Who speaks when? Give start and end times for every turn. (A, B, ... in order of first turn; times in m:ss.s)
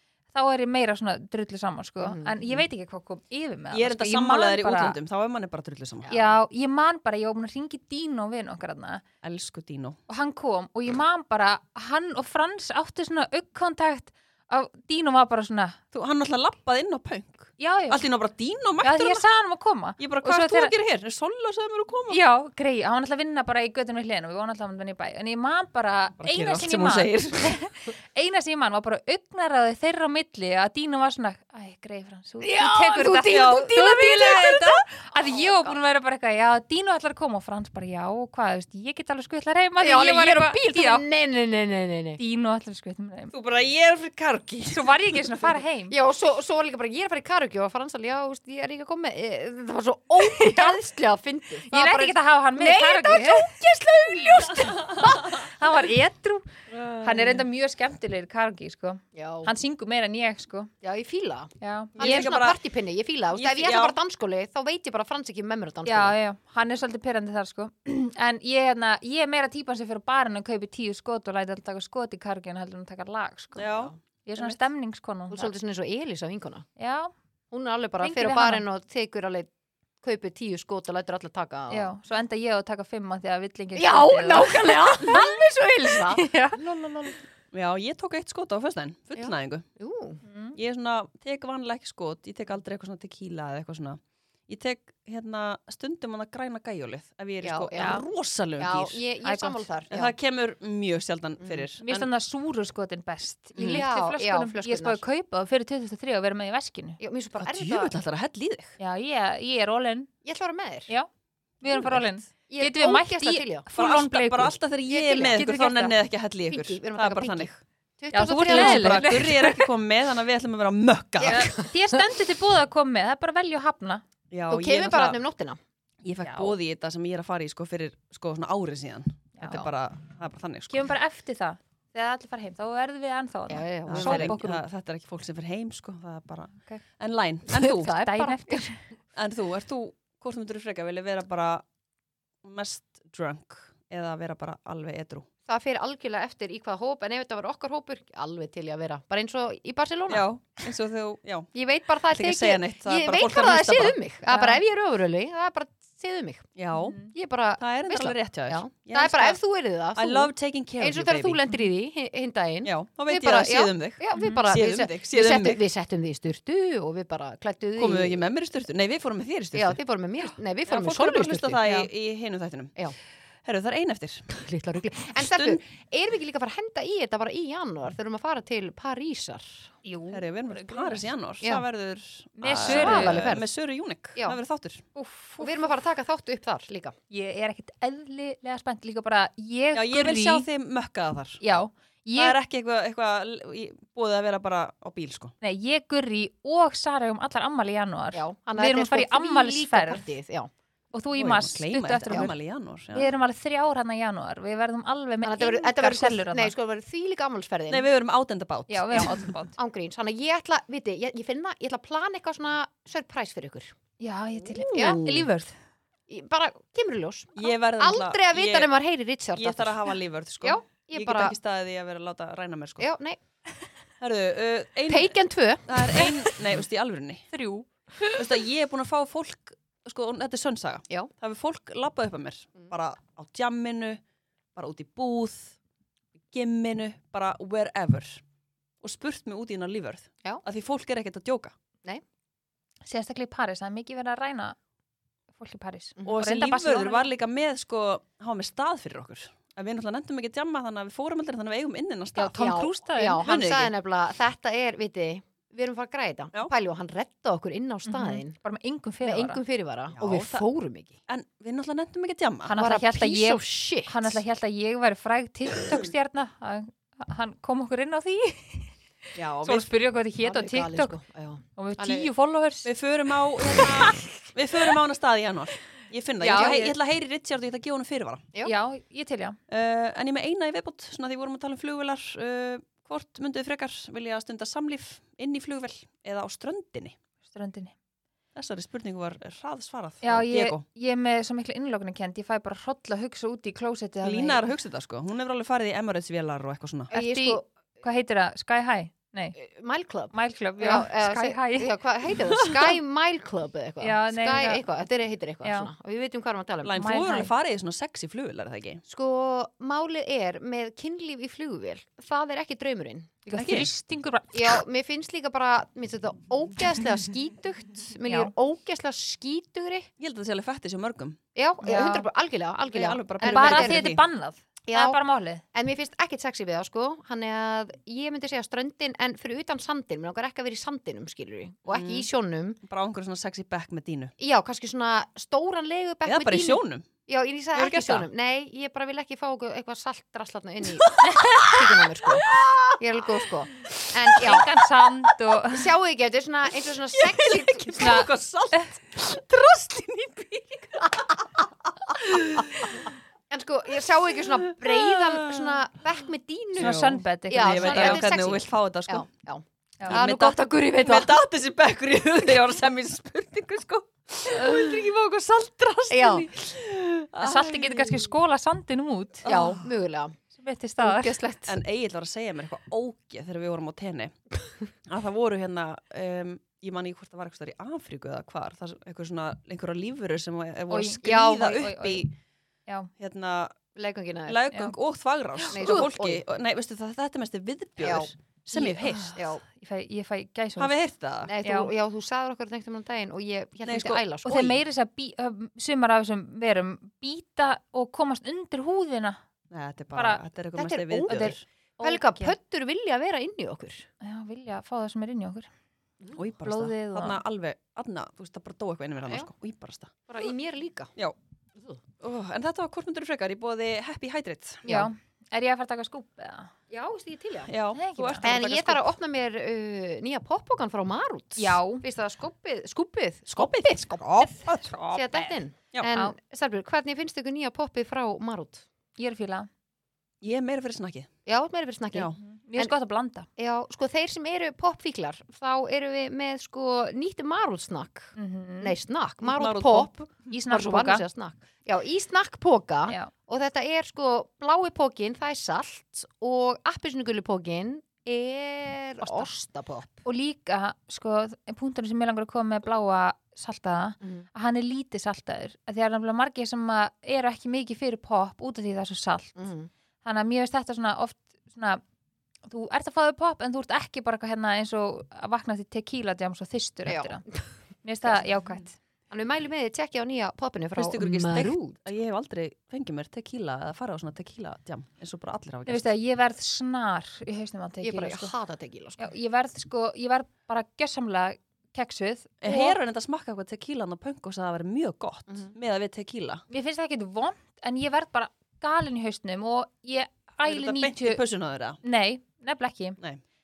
0:00.3-0:05.0 A
0:02.0-0:02.6 B
0:03.7-0:06.2 C
0:06.1-0:09.0 A
0:09.2-0:10.0 C
0:10.1-0:15.8 A
0:15.9-0:19.2 C
0:17.6-0:18.0 A
0:18.8-0:20.7 A
0:20.0-0:22.2 C
0:22.1-0:41.0 A
0:26.2-0:27.6 C
0:32.4-0:35.8 B
0:33.3-0:34.1 C
0:39.8-0:42.2 B
0:42.2-0:43.3 A
0:43.3-0:44.9 C
0:44.7-0:46.0 A
0:45.9-0:55.4 B
0:50.2-0:50.8 A
0:51.7-0:53.5 A
0:55.2-1:00.7 A
0:59.1-0:59.5 B
1:00.8-1:06.2 B
1:01.6-1:02.3 A
1:02.0-1:02.6 C
1:03.3-1:04.0 C
1:05.8-1:13.7 A
1:13.6-1:14.5 C
1:14.2-1:15.5 A
1:15.3-1:16.7 B
1:16.8-1:17.1 A
1:17.5-1:19.5 B
1:18.0-1:18.6 A
1:20.0-1:21.9 B
1:21.7-1:25.2 A
1:23.8-1:27.2 B
1:26.1-1:26.6 A
1:27.5-1:29.7 C
1:29.2-1:30.2 B
1:30.2-1:30.6 A
1:30.6-1:39.0 C
1:37.4-1:38.0 B
1:38.6-1:40.2 B
1:39.2-1:39.6 A
1:39.9-1:42.1 C
1:41.4-1:41.7 B
1:41.8-1:47.0 A
1:43.6-1:43.8 C
1:43.6-1:45.0 B
1:47.0-1:47.9 B
1:47.4-1:48.8 C
1:48.8-1:50.1 A
1:50.2-1:50.9 B
1:51.6-1:54.6 A
1:52.5-1:53.7 B
1:53.8-1:57.6 C
1:54.9-1:55.4 B
1:55.3-1:55.9 A
1:56.5-1:59.2 B
1:58.1-1:59.7 A
1:58.2-2:01.6 C
2:01.2-2:01.7 B
2:01.2-2:04.0 A
2:04.3-2:05.2 C
2:04.5-2:05.6 B
2:06.0-2:10.9 C
2:06.2-2:06.6 A
2:09.4-2:09.7 A
2:10.7-2:14.6 A
2:13.5-2:14.4 B
2:13.9-2:18.0 C
2:17.5-2:18.7 B
2:17.9-2:18.8 A
2:19.2-2:21.6 C
2:22.4-2:25.3 C
2:25.5-2:30.3 B
2:30.1-2:31.5 C
2:31.5-2:48.3 B
2:32.1-2:34.0 C
2:34.3-2:34.6 A
2:36.6-2:37.0 C
2:36.7-2:37.1 A
2:37.6-2:39.4 C
2:40.0-2:41.4 C
2:42.6-2:45.6 C
2:44.2-2:44.5 A
2:47.8-2:49.8 C
2:49.6-2:51.9 B
2:50.7-2:52.8 C
2:53.4-2:54.3 C
2:54.3-2:59.7 B
2:55.2-2:55.6 C
2:59.8-3:01.1 A
3:00.1-3:04.8 C
3:02.4-3:03.2 A
3:02.6-3:03.5 B
3:05.0-3:05.7 A
3:05.4-3:07.0 B
3:07.1-3:10.5 A
3:09.7-3:11.4 C
3:11.4-3:12.4 A
3:12.2-3:15.4 C
3:15.4-3:20.1 A
3:18.1-3:20.5 B
3:20.9-3:22.3 A
3:21.2-3:23.1 C
3:22.9-3:26.6 A
3:25.2-3:27.9 B
3:27.7-3:29.3 C
3:28.7-3:29.6 A
3:29.6-3:33.7 B
3:34.0-3:35.6 A
3:34.6-3:35.3 C
3:34.7-3:35.0 B
3:36.1-3:39.8 B
3:37.4-3:38.7 C
3:39.4-3:42.9 C
3:40.4-3:41.4 B
3:42.8-3:43.2 B
3:44.0-3:47.3 C
3:44.9-3:46.1 B
3:47.3-3:48.1 A
3:48.1-3:54.0 C
3:54.6-3:55.6 C
3:56.3-3:58.2 C
3:58.8-4:01.5 C
4:02.9-4:04.6 A
4:05.4-4:07.1 A
4:06.0-4:12.4 C
4:12.2-4:13.3 A
4:12.4-4:18.4 B
4:13.2-4:13.7 C
4:17.9-4:19.4 A
4:19.0-4:21.0 B
4:19.9-4:20.5 C
4:21.1-4:22.5 C
4:22.5-4:28.7 A
4:22.6-4:24.2 B
4:29.2-4:29.7 C
4:29.4-4:31.0 A
4:30.2-4:32.1 B
4:31.6-4:32.7 A
4:32.6-4:38.3 C
4:36.2-4:36.6 B
4:36.3-4:36.7 A
4:38.4-4:39.4 A
4:39.5-4:47.0 C
4:47.2-4:47.8 A
4:48.4-4:50.6 C
4:50.0-4:54.5 A
4:54.0-4:56.9 C
4:56.9-4:57.4 B
4:56.9-4:59.4 A
4:59.4-5:06.8 B
5:00.1-5:01.7 A
5:02.4-5:02.7 C
5:03.8-5:04.6 A
5:05.4-5:05.7 A
5:06.6-5:08.8 C
5:06.8-5:07.3 A
5:08.9-5:13.2 B
5:13.3-5:14.6 A
5:13.4-5:13.7 C
5:14.3-5:19.9 B
5:18.1-5:18.3 A
5:20.0-5:21.2 C
5:21.4-5:23.9 B
5:21.6-5:22.1 A
5:22.7-5:24.0 C
5:23.2-5:25.4 A
5:24.7-5:25.0 B
5:25.5-5:32.6 B
5:31.7-5:32.1 C
5:32.7-5:34.1 C
5:34.2-5:44.5 B
5:36.0-5:36.9 C
5:37.5-5:38.1 C
5:40.8-5:42.8 C
5:41.1-5:41.4 A
5:44.2-5:45.7 A
5:45.5-5:48.0 B
5:46.9-5:52.8 C
5:47.8-5:48.7 A
5:53.3-6:01.2 B
5:54.4-5:55.6 C
5:56.6-5:58.1 A
5:56.6-5:59.1 C
5:59.9-6:08.1 C
6:05.9-6:06.3 B
6:07.2-6:09.3 A
6:09.2-6:09.6 C
6:09.3-6:10.2 B
6:10.4-6:11.2 A
6:10.8-6:11.6 B
6:11.4-6:14.2 C
6:14.9-6:22.1 C
6:20.7-6:22.0 A
6:21.0-6:21.6 B
6:23.0-6:23.6 C
6:23.8-6:24.4 B
6:24.3-6:29.2 C
6:25.4-6:25.8 A
6:25.5-6:26.2 B
6:27.8-6:29.4 B
6:28.7-6:30.7 A
6:30.6-6:31.3 C
6:31.2-6:34.6 B
6:31.4-6:31.7 A
6:33.6-6:34.0 C
6:34.2-6:39.2 A
6:39.5-6:41.4 C
6:40.0-6:40.2 A
6:40.6-6:43.9 B
6:41.1-6:42.4 A
6:44.0-6:45.5 A
6:46.2-6:50.0 C
6:46.4-6:47.2 A
6:50.1-6:50.9 B
6:52.0-6:54.6 C
6:54.7-6:54.9 B
6:54.7-6:56.5 A
6:56.7-6:57.6 B
6:57.5-6:58.9 C
6:57.8-6:58.3 A
6:58.2-7:08.6 B
7:01.4-7:01.8 A
7:03.3-7:04.7 C
7:04.4-7:05.4 A
7:05.9-7:06.2 A
7:09.0-7:09.5 A
7:10.2-7:11.1 C
7:11.3-7:12.7 B
7:12.2-7:13.3 A
7:13.4-7:30.0 B
7:18.2-7:18.8 A
7:19.2-7:20.1 C
7:20.3-7:21.0 A
7:22.9-7:23.1 A
7:29.0-7:29.3 A
7:30.0-7:39.4 A
7:34.0-7:34.3 B
7:39.4-7:39.7 B
7:40.0-7:41.8 A
7:42.5-7:47.2 A
7:46.9-7:47.5 B
7:47.8-7:48.7 A
7:49.1-7:51.8 B
7:50.8-7:55.9 C
7:55.7-7:58.3 A
7:57.8-7:59.1 B
7:59.0-8:02.8 A
8:02.4-8:06.4 C
8:06.5-8:11.2 A
8:10.4-8:11.8 C
8:11.8-8:13.0 A